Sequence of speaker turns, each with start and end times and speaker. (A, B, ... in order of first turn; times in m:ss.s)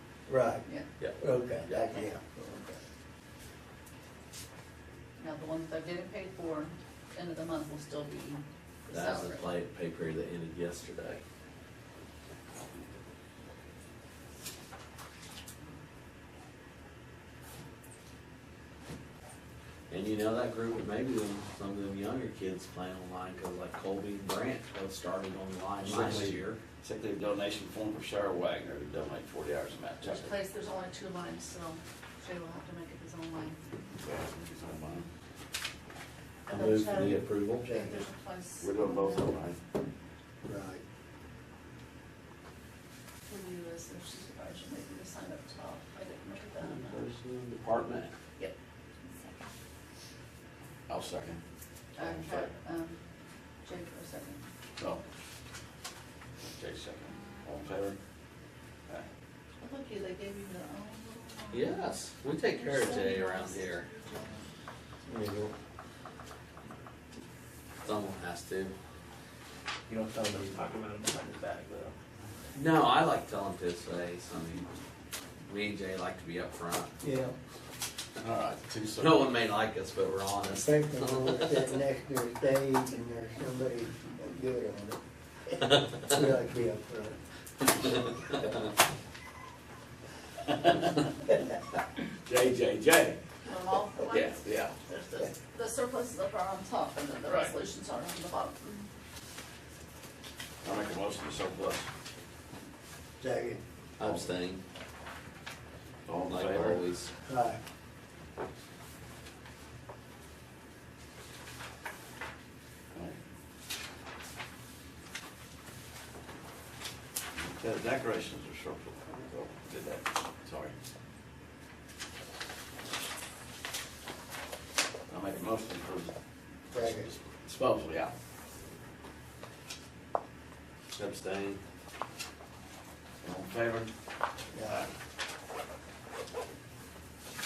0:00.3-0:00.7 A
0:01.2-0:02.8 A
0:05.2-0:09.5 B
0:08.9-0:11.2 C
0:19.9-0:26.6 C
0:25.8-0:30.3 D
0:30.0-0:33.6 B
0:34.0-0:35.1 D
0:36.5-0:39.6 B
0:36.5-0:37.6 C
0:37.6-0:38.0 A
0:38.6-0:39.6 D
0:40.4-0:40.8 A
0:43.3-0:47.0 B
0:46.6-0:48.1 C
0:49.1-0:49.4 B
0:50.9-0:51.4 D
0:52.0-0:53.0 B
0:52.0-0:52.5 D
0:53.6-0:54.5 B
0:54.8-0:55.0 D
0:56.5-0:58.0 D
0:59.6-1:01.9 B
1:01.5-1:03.8 C
1:02.5-1:04.4 B
1:05.0-1:05.5 A
1:07.8-1:08.7 C
1:09.9-1:11.9 E
1:12.5-1:14.6 C
1:15.4-1:16.9 C
1:17.0-1:17.3 A
1:18.2-1:19.2 D
1:19.0-1:21.7 C
1:20.5-1:27.2 A
1:32.2-1:33.2 D
1:33.4-1:38.9 B
1:34.1-1:34.8 D
1:37.2-1:37.5 D
1:40.6-1:41.9 D
1:43.2-1:43.6 A
1:44.0-1:44.6 C
1:46.1-1:46.8 D
1:46.3-1:47.1 C
1:47.2-1:47.6 A
1:57.3-2:00.7 D
2:05.1-2:06.1 D
2:06.7-2:07.1 A
2:06.7-2:08.1 D
2:10.9-2:11.6 C
2:13.2-2:13.9 D
2:14.5-2:14.9 A
2:14.6-2:14.9 D